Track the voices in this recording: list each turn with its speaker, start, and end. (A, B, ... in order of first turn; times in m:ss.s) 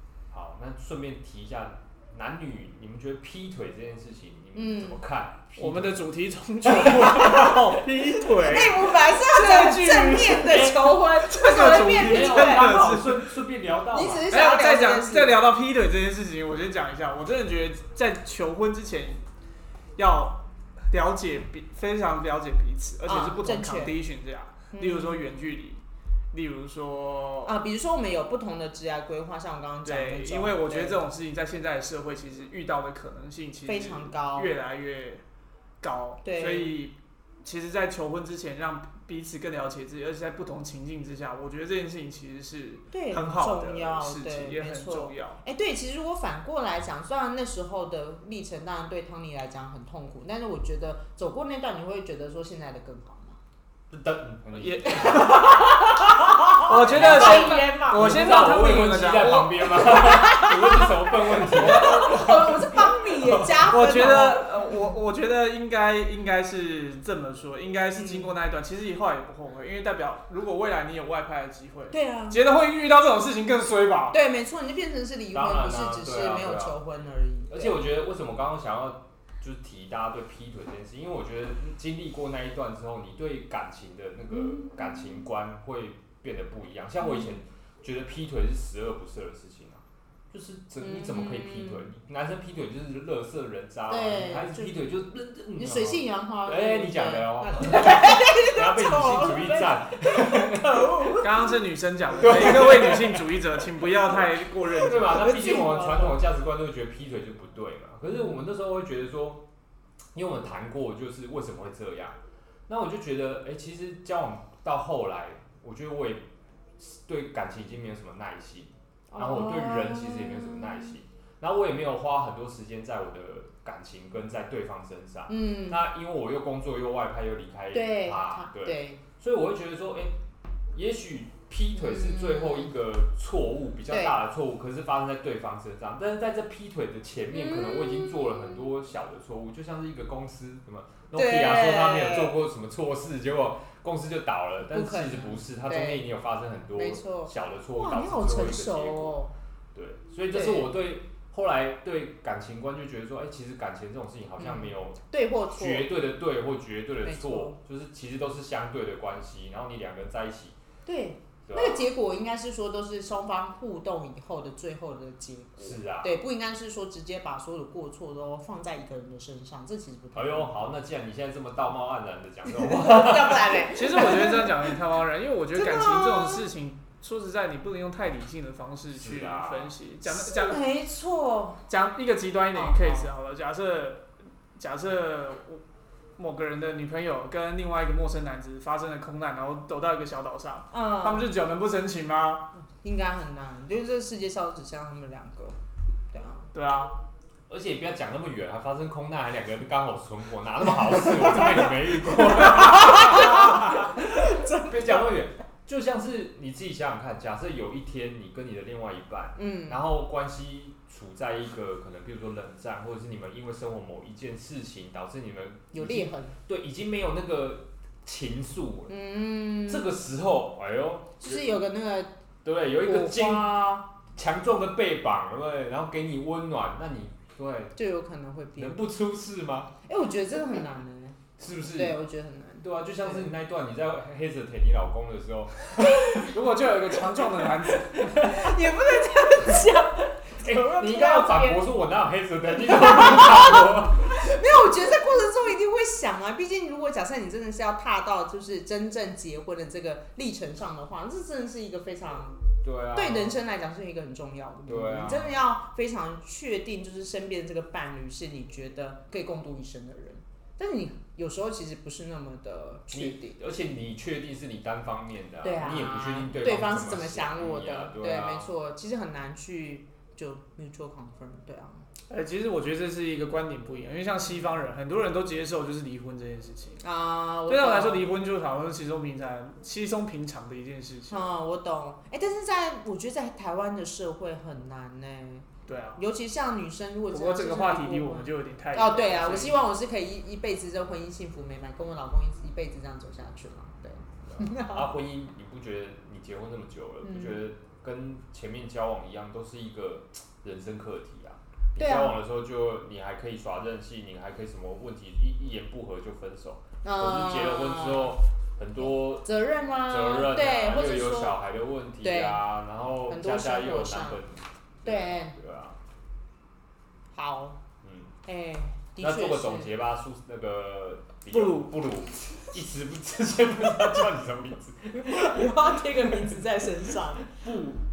0:00.3-0:06.0 A
0:04.5-0:05.0 B
0:05.6-0:13.2 C
0:06.6-0:07.7 A
0:06.8-0:12.8 B
0:11.7-0:14.3 A
0:13.9-0:15.4 B
0:14.3-0:19.2 C
0:20.0-0:27.5 C
0:23.0-0:24.0 B
0:24.7-0:25.2 B
0:27.4-0:31.0 B
0:29.8-0:35.2 C
0:33.6-0:34.5 B
0:35.8-0:45.4 C
0:36.2-0:36.8 B
0:42.9-0:53.4 B
0:53.9-1:03.7 A
0:54.5-0:59.7 C
0:55.4-0:58.6 B
0:59.7-1:04.8 B
1:03.7-1:14.2 C
1:07.9-1:08.4 B
1:11.9-1:12.4 B
1:14.1-1:17.8 B
1:15.3-1:16.8 A
1:17.5-1:41.2 A
1:24.3-1:25.2 B
1:27.0-1:27.4 B
1:30.8-1:31.8 B
1:33.9-1:34.9 B
1:35.5-1:41.6 B
1:41.2-1:45.4 C
1:42.2-1:43.2 A
1:42.2-1:43.2 B
1:44.6-1:46.2 B
1:44.7-1:49.4 A
1:48.1-1:48.4 B
1:50.1-2:10.2 A
1:59.1-2:01.0 B
2:05.3-2:05.8 B
2:07.7-2:09.0 B
2:10.7-2:29.2 A
2:11.7-2:12.7 B
2:13.9-2:14.2 B
2:17.3-2:18.6 B
2:21.1-2:22.4 B
2:24.7-2:26.1 B
2:26.7-2:29.3 B
2:29.7-2:35.0 A
2:30.3-2:30.7 B
2:34.4-2:35.9 B
2:35.5-2:40.6 A
2:37.0-2:37.6 B
2:40.8-2:50.7 B
2:41.4-2:41.9 A
2:45.6-2:46.2 A
2:50.1-2:54.4 A
2:52.4-2:54.5 B
2:53.7-3:00.6 C
2:55.5-2:56.4 B
2:58.9-2:59.7 A
3:00.0-3:01.6 B
3:01.7-3:05.6 C
3:02.5-3:03.1 B
3:06.2-3:12.4 C
3:10.7-3:11.3 B
3:12.8-3:15.6 B
3:16.1-3:16.5 B
3:16.5-3:16.9 C
3:17.5-3:38.9 A
3:22.3-3:25.0 B
3:29.4-3:29.8 B
3:35.7-3:36.3 B
3:38.9-3:40.0 B
3:39.7-3:41.5 A
3:41.2-3:42.1 B
3:42.4-3:43.6 A
3:42.8-3:43.9 B
3:44.1-3:47.7 A
3:47.7-3:48.8 B
3:48.6-3:49.7 A
3:49.8-3:53.3 B
3:51.4-3:52.0 A
3:52.6-3:56.4 A
3:56.2-3:58.2 C
3:57.9-3:58.5 A
3:58.2-4:01.7 B
4:00.4-4:04.3 A
4:02.5-4:12.4 B
4:12.6-4:13.4 A
4:12.9-4:23.4 B
4:14.6-4:15.4 A
4:22.9-4:28.5 A
4:25.4-4:31.8 B
4:32.1-4:36.8 C
4:36.8-4:38.0 B
4:37.5-4:41.2 C
4:41.1-4:54.9 B
4:45.6-4:46.0 C
4:47.1-4:49.6 C
4:54.3-5:09.2 A
4:57.0-4:57.4 B
5:01.8-5:02.2 B
5:06.8-5:08.2 B
5:08.8-5:11.4 B
5:09.9-5:15.8 A
5:12.0-5:12.4 B
5:13.1-5:14.2 B
5:14.8-5:15.4 B
5:17.1-5:17.6 B
5:17.8-5:18.1 A
5:18.2-5:19.7 B
5:19.0-5:26.4 A
5:21.3-5:21.7 C
5:25.0-5:27.4 B
5:27.3-5:27.8 A